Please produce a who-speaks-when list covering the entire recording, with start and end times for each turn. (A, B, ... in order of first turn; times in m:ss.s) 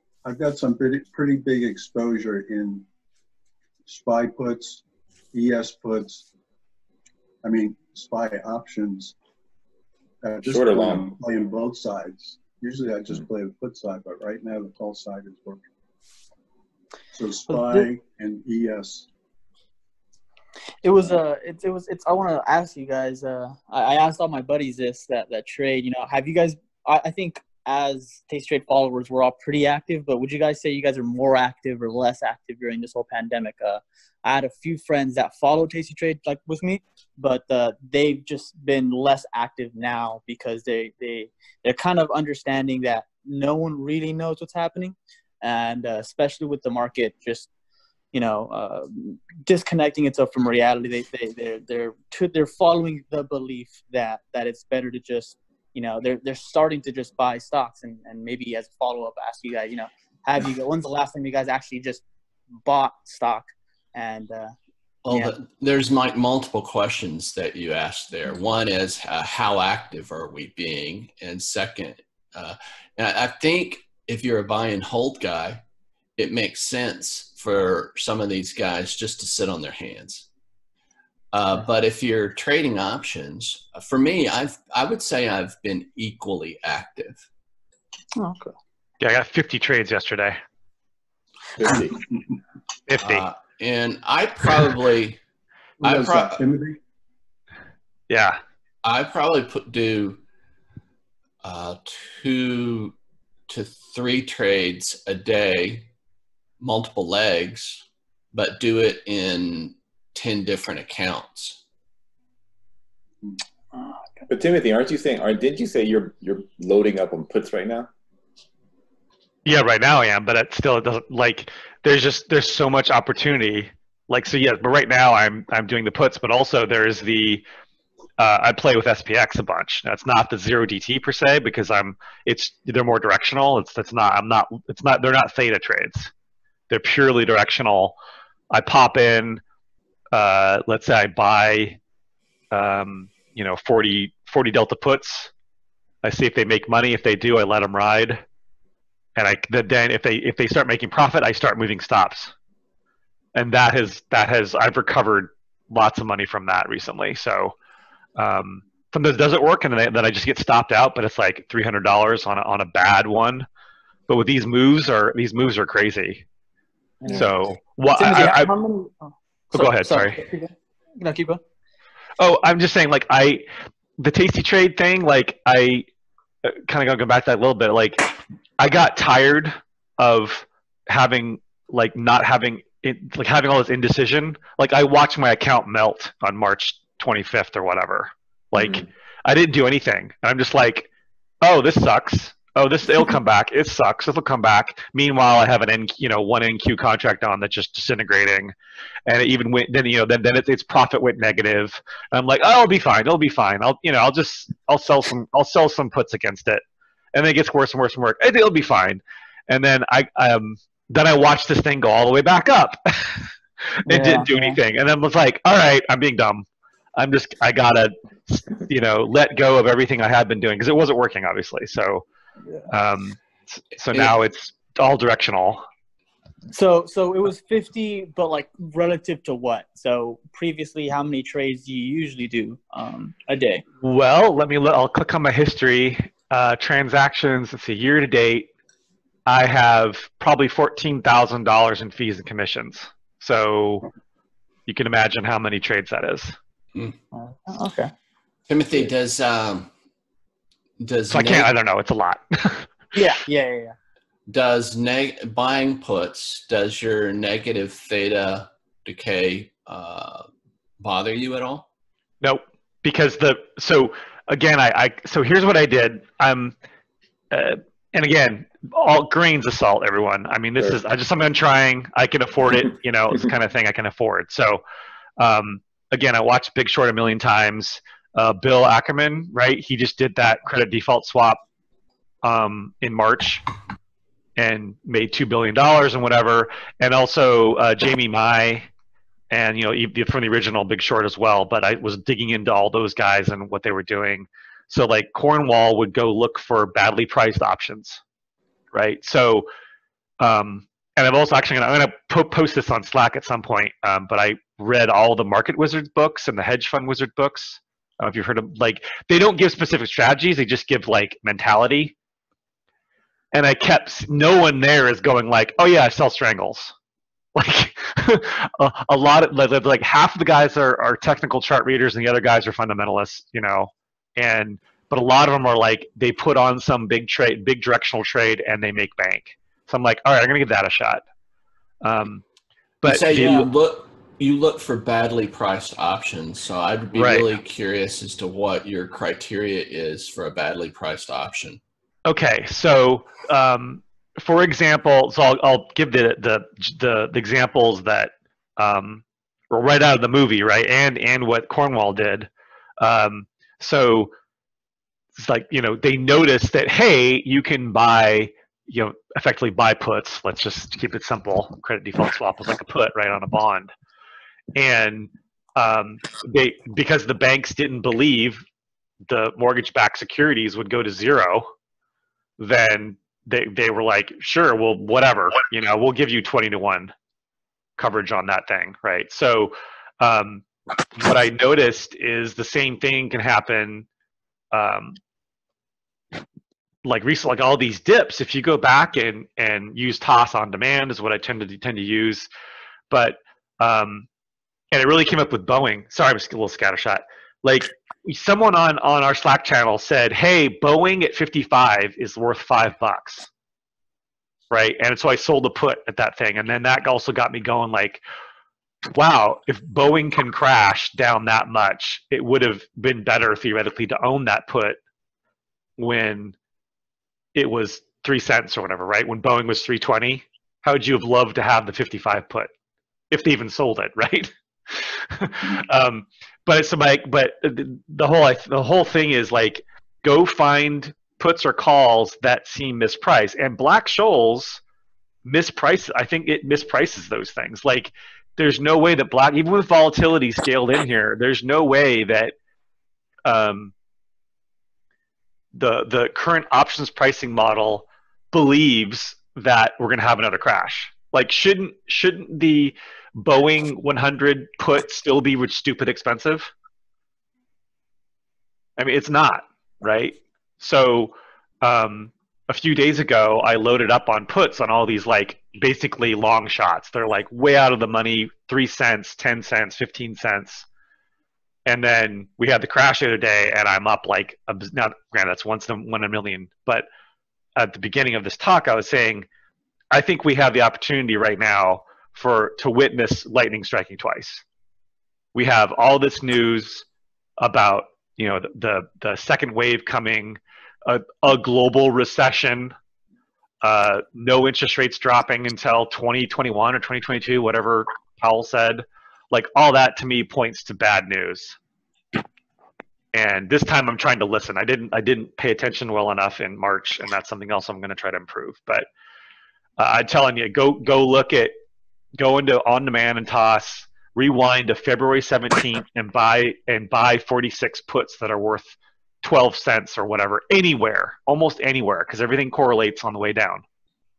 0:00.2-0:02.8 A
0:03.8-0:06.3 A
0:07.4-0:09.2 A
0:10.2-0:15.6 A
0:10.4-0:11.1 B
0:17.1-0:19.1 A
0:17.5-0:17.8 C
0:20.8-0:47.5 C
0:48.1-1:02.0 C
1:02.6-1:04.5 C
1:05.0-1:15.6 D
1:05.1-1:05.3 C
1:16.2-1:20.3 D
1:21.3-1:27.2 D
1:29.0-1:30.4 E
1:31.6-1:32.0 B
1:32.9-1:33.3 E
1:33.0-1:35.2 D
1:35.8-1:36.8 A
1:35.8-1:36.4 D
1:38.1-1:38.4 E
1:38.8-1:40.2 D
1:41.4-1:42.9 D
1:43.5-1:45.9 D
1:46.6-1:51.6 D
1:54.3-1:57.9 B
1:59.4-2:07.4 E
2:08.2-2:16.1 E
2:16.7-2:18.0 E
2:18.5-2:19.4 E
2:20.1-2:21.8 E
2:22.5-2:25.3 E
2:26.0-2:28.2 E
2:29.2-2:32.3 E
2:33.3-2:37.5 E
2:38.2-2:43.5 E
2:44.1-2:46.2 E
2:47.0-2:47.3 C
2:47.1-2:48.5 E
2:47.9-2:51.4 C
2:49.5-2:50.2 E
2:52.2-2:53.4 E
2:54.0-2:55.8 E
2:56.4-3:10.9 E
3:08.6-3:08.8 B
3:11.4-3:18.5 E
3:19.1-3:26.6 E
3:27.1-3:33.3 E
3:33.8-3:34.6 C
3:33.8-3:42.0 E
3:42.7-3:45.6 E
3:46.5-3:53.6 C
3:53.8-3:58.5 E
3:59.2-4:03.9 E
4:04.7-4:06.4 E
4:07.1-4:07.9 C
4:08.5-4:09.7 D
4:10.8-4:11.5 D
4:11.1-4:12.7 E
4:12.9-4:13.7 C
4:14.3-4:20.3 D
4:20.8-4:21.6 D
4:22.2-4:26.5 E
4:27.3-4:34.6 E
4:35.2-4:41.4 E
4:42.2-4:43.4 E
4:44.4-4:48.7 E
4:49.3-4:58.0 E
4:58.7-4:59.5 E
5:00.2-5:11.9 E
5:13.3-5:16.7 E
5:17.4-5:31.0 E
5:31.8-5:32.2 E
5:32.8-5:33.5 E
5:32.8-5:41.6 D
5:33.2-5:33.4 C
5:36.9-5:37.3 E
5:42.0-5:54.1 E
5:55.2-6:03.7 E
6:04.5-6:08.4 E
6:09.1-6:11.5 E
6:12.4-6:16.9 E
6:17.8-6:20.4 E
6:20.9-6:23.8 E
6:24.5-6:25.0 E
6:26.8-6:32.3 E
6:32.9-6:34.1 E
6:34.7-6:43.3 E
6:44.5-6:48.0 E
6:48.9-6:54.8 E
6:55.8-6:56.4 E
6:57.3-7:02.5 E
7:03.1-7:14.6 E
7:15.2-7:22.3 E
7:23.2-7:23.7 E
7:25.5-7:36.5 E
7:38.8-7:50.6 E
7:51.6-7:56.8 E
7:57.6-7:59.2 E
7:59.9-8:04.4 E
8:05.3-8:06.8 E
8:07.4-8:12.7 E
8:13.6-8:21.6 E
8:23.1-8:28.8 E
8:29.8-8:31.5 E
8:32.2-8:43.6 E